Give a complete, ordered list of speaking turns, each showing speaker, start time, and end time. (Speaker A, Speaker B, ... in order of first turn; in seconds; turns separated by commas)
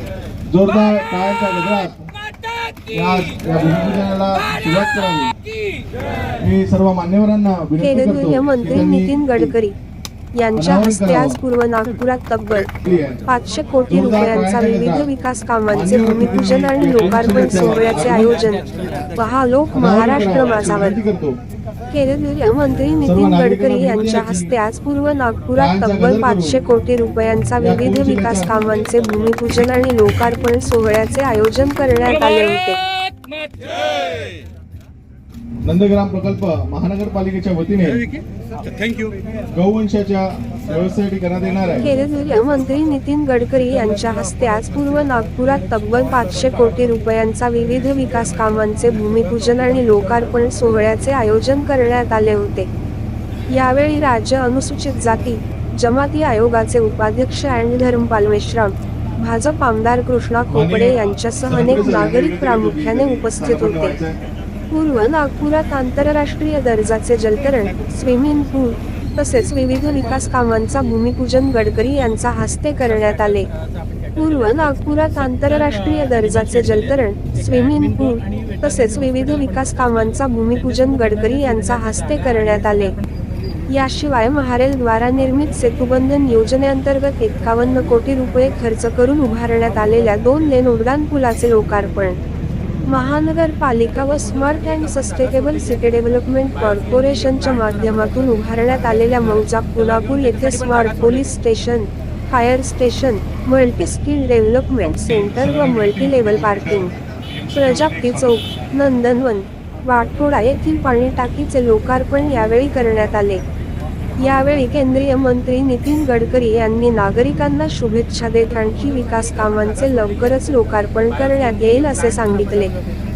Speaker A: 0.5-2.1, Speaker A: 2.9-5.3, Speaker A: 6.4-9.5, Speaker B: 7.8-9.7, Speaker B: 10.3-21.0, Speaker A: 10.5-11.4, Speaker A: 12.8-13.2, Speaker A: 13.9-15.1, Speaker A: 15.7-18.4, Speaker A: 19.7-21.4, Speaker B: 21.9-32.9, Speaker A: 23.0-24.5, Speaker A: 25.6-26.6, Speaker A: 27.6-28.6, Speaker A: 35.6-38.0, Speaker A: 39.5-41.9, Speaker B: 41.8-52.7, Speaker B: 53.5-64.0, Speaker A: 60.5-64.2, Speaker B: 64.7-73.5, Speaker B: 74.2-82.9, Speaker B: 83.7-92.2, Speaker B: 92.9-106.9, Speaker A: 105.1-106.9, Speaker B: 107.5-113.4, Speaker B: 114.2-122.7